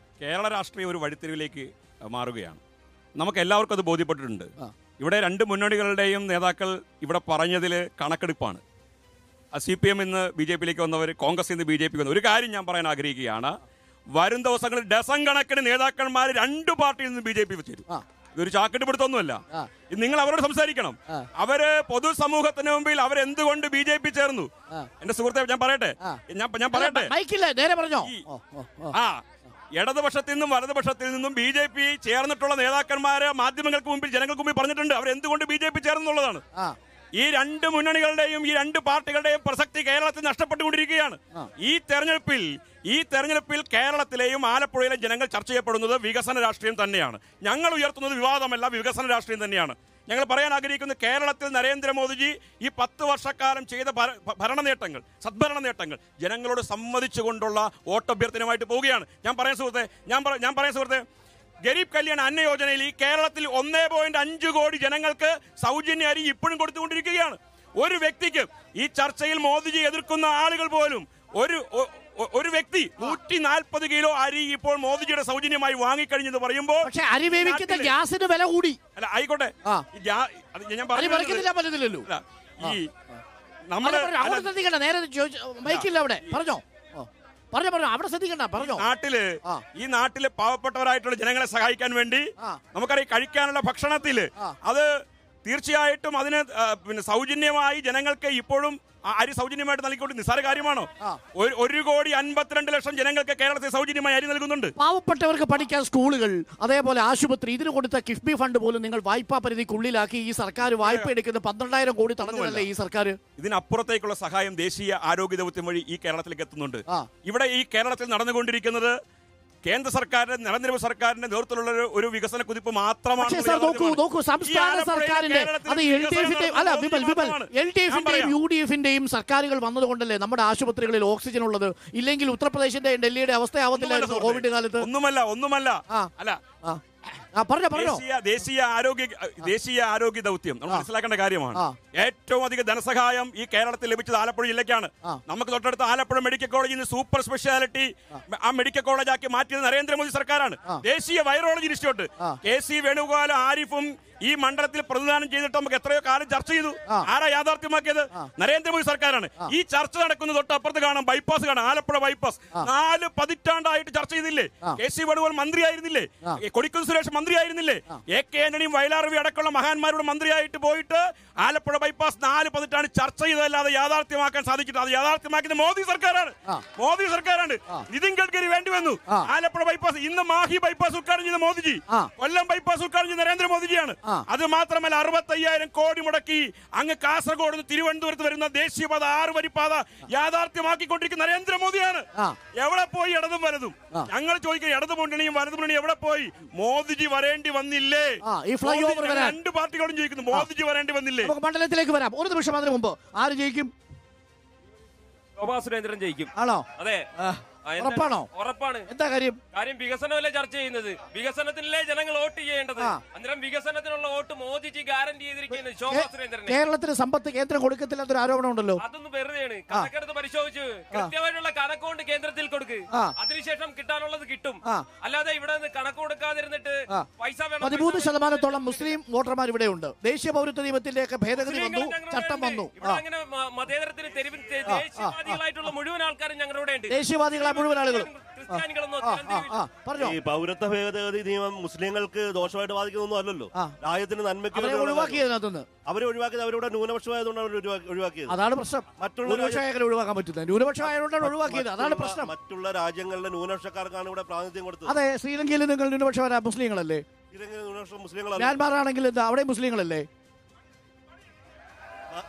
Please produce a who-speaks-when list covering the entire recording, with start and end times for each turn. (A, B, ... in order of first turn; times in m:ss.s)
0:00.2-0:02.6 A
0:03.2-0:08.6 A
0:09.5-0:13.6 A
0:14.2-0:24.5 A
0:25.0-0:27.1 A
0:26.7-0:29.0 B
0:28.9-0:29.2 A
0:29.8-0:36.4 A
0:37.2-1:01.0 A
1:01.7-1:17.9 A
1:16.8-1:18.8 B
1:19.0-1:21.5 A
1:20.9-1:22.1 B
1:22.1-1:22.9 A
1:22.6-1:23.2 B
1:23.7-1:24.5 A
1:23.8-1:28.9 B
1:25.7-1:26.4 A
1:28.6-1:34.9 A
1:35.4-1:44.7 A
1:44.8-1:53.2 B
1:50.8-1:51.1 A
1:52.2-1:52.7 A
1:53.4-1:59.0 A
1:59.6-2:08.4 A
2:03.2-2:14.9 B
2:13.7-2:16.4 A
2:17.4-2:18.0 B
2:17.7-3:21.3 A
3:18.2-3:19.4 B
3:21.2-3:23.7 B
3:25.4-3:27.1 C
3:26.4-3:26.7 B
3:27.2-3:28.3 B
3:27.6-3:28.9 C
3:28.9-3:29.4 B
3:29.5-3:36.6 C
3:35.9-3:38.8 B
3:38.8-3:49.0 C
3:47.6-3:53.0 B
3:51.4-3:59.6 C
3:54.7-3:55.4 B
3:56.9-4:00.2 B
4:00.0-4:05.2 D
4:04.5-4:05.7 B
4:05.9-4:08.4 D
4:08.3-4:12.3 B
4:09.0-4:09.6 D
4:10.8-4:15.0 D
4:14.8-4:17.0 B
4:17.3-4:18.6 D
4:18.4-4:20.1 B